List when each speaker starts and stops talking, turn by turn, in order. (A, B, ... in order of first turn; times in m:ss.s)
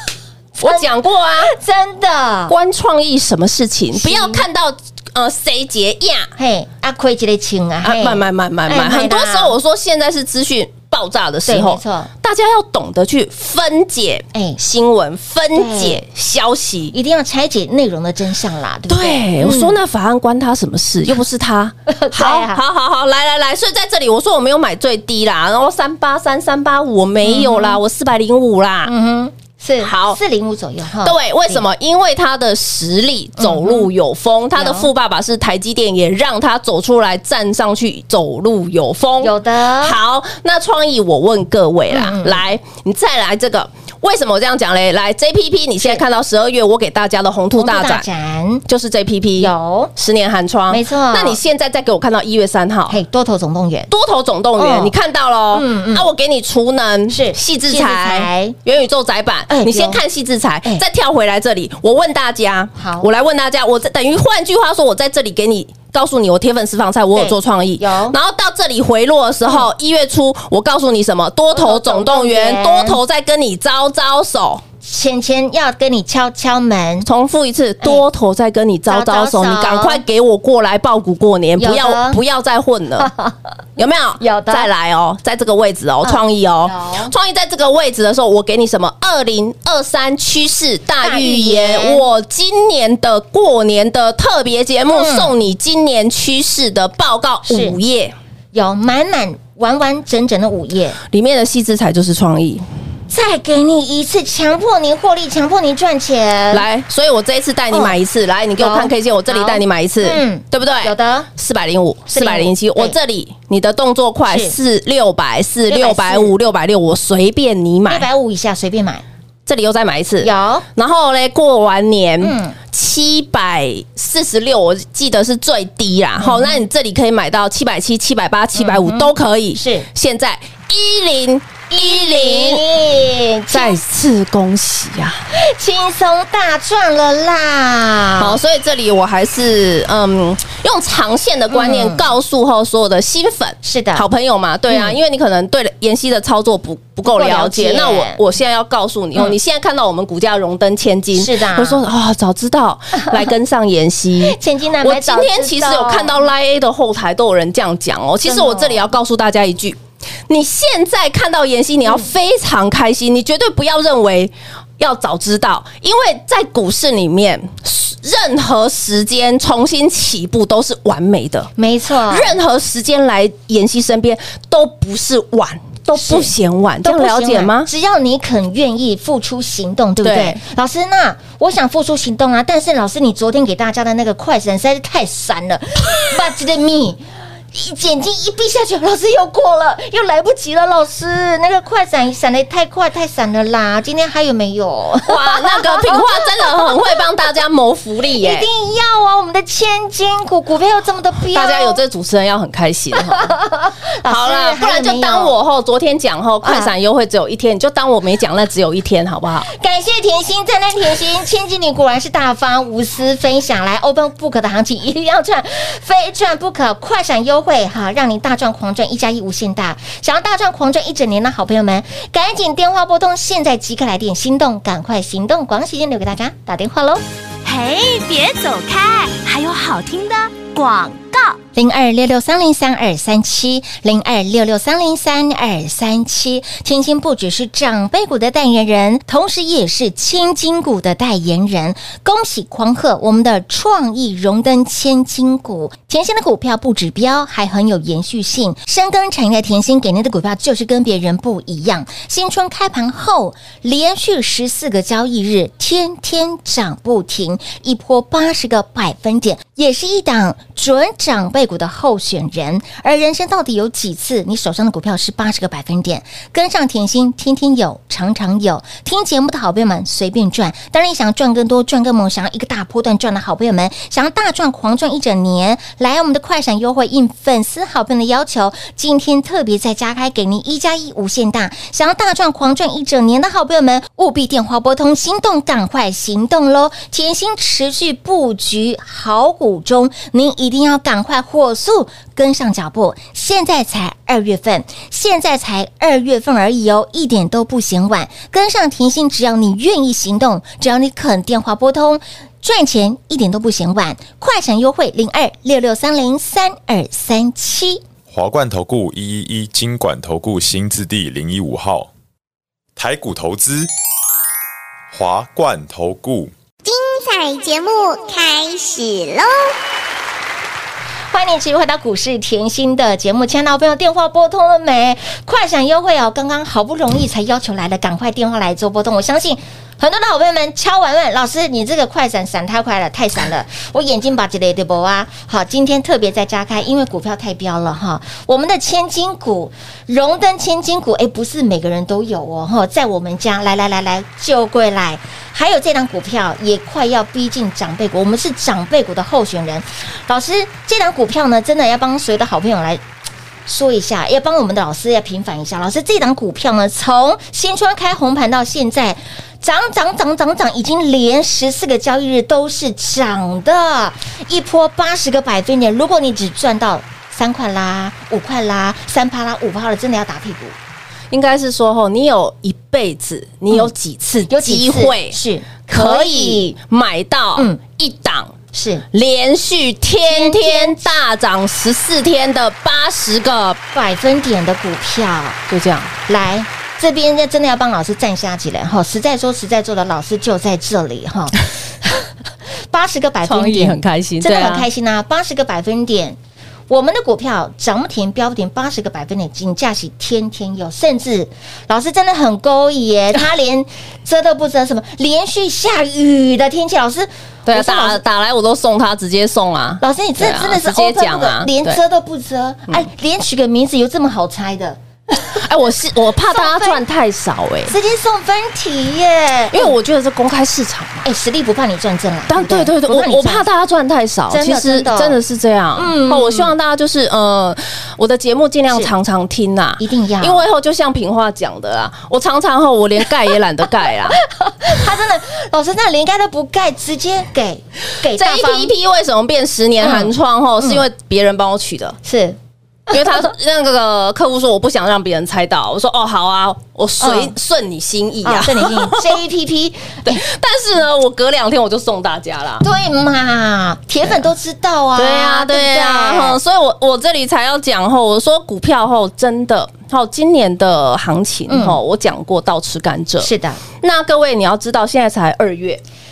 0:00.6-0:02.6 A
0:00.6-0:01.5 B
0:02.5-0:06.3 B
0:03.9-0:04.4 A
0:06.4-0:09.6 A
0:07.8-0:16.9 B
0:11.5-0:12.1 A
0:14.3-0:14.6 A
0:15.5-0:16.0 A
0:16.9-0:19.8 A
0:18.9-0:28.9 B
0:21.9-0:22.6 A
0:27.2-0:27.8 A
0:28.9-0:31.6 A
0:29.8-0:30.2 B
0:31.0-0:48.1 B
0:33.4-0:33.9 A
0:34.6-0:34.9 A
0:39.2-0:40.0 A
0:41.9-0:42.4 A
0:47.6-0:48.6 A
0:48.7-0:53.0 B
0:49.4-0:49.9 A
0:50.7-0:51.4 A
0:52.9-0:53.9 A
0:53.9-1:14.6 B
0:54.6-0:54.9 A
0:55.5-0:56.1 A
0:57.1-0:58.6 A
0:59.5-1:00.0 A
1:02.8-1:03.1 A
1:07.2-1:08.2 A
1:11.5-1:13.0 A
1:14.8-1:17.1 A
1:17.0-1:23.1 B
1:18.9-1:20.0 A
1:21.6-1:22.2 A
1:23.0-1:23.5 A
1:23.8-1:38.1 B
1:24.2-1:24.7 A
1:26.0-1:27.1 A
1:31.0-1:32.0 A
1:34.9-1:35.3 A
1:37.5-1:37.8 A
1:38.5-1:41.0 A
1:41.1-1:42.6 B
1:43.1-1:46.7 A
1:46.5-1:58.1 B
1:47.7-1:48.0 A
1:48.6-1:51.3 A
1:52.1-1:53.0 A
1:54.3-1:54.6 A
1:55.7-1:56.3 A
1:57.9-1:59.0 A
1:59.5-2:12.6 B
2:00.2-2:00.7 A
2:02.2-2:02.6 A
2:06.2-2:06.6 A
2:08.6-2:09.9 A
2:11.7-2:13.8 A
2:13.5-2:15.3 B
2:15.3-2:18.4 A
2:18.2-2:51.5 B
2:21.5-2:22.0 A
2:23.6-2:24.0 A
2:24.7-2:25.0 A
2:27.1-2:28.2 A
2:31.2-2:31.8 A
2:34.2-2:36.2 A
2:38.2-2:38.8 A
2:51.6-2:52.4 A
2:52.1-2:57.7 B
2:56.0-3:16.8 A
3:00.0-3:00.4 B
3:15.1-3:18.5 B
3:18.2-3:21.8 A
3:21.3-3:23.3 B
3:23.0-3:25.3 A
3:24.0-3:29.5 B
3:26.4-3:26.7 A
3:29.5-3:47.0 A
3:47.4-3:51.4 C
3:51.6-5:07.8 A
5:08.1-5:11.9 D
5:12.8-5:13.7 D
5:14.9-5:16.3 D
5:16.6-5:19.6 E
5:21.1-5:52.8 A
5:53.5-6:10.6 A
6:11.1-6:18.3 B
6:14.3-6:16.5 A
6:18.5-6:18.8 A
6:18.9-6:23.6 B
6:20.0-6:21.0 A
6:23.7-6:25.4 A
6:25.5-6:25.9 B
6:26.1-6:32.1 A
6:32.6-6:36.2 A
6:33.2-6:34.7 B
6:36.7-6:48.0 A
6:47.5-6:51.8 B
6:49.8-6:55.4 A
6:55.4-6:57.7 B
6:56.2-6:56.8 A
6:57.7-6:59.8 A
6:59.5-7:01.1 B
7:01.0-7:03.5 A
7:02.3-7:14.2 B
7:04.3-7:05.2 A
7:05.8-7:06.5 A
7:09.8-7:10.4 A
7:14.2-7:18.7 A
7:18.1-7:22.0 B
7:19.8-7:20.9 A
7:22.0-7:22.4 A
7:22.9-7:23.3 A
7:22.9-7:29.2 B
7:27.0-7:27.3 A
7:28.2-7:30.2 A
7:30.1-7:32.6 B
7:32.6-7:36.4 A
7:35.0-7:45.8 B
7:41.5-7:41.8 A
7:43.2-7:43.6 A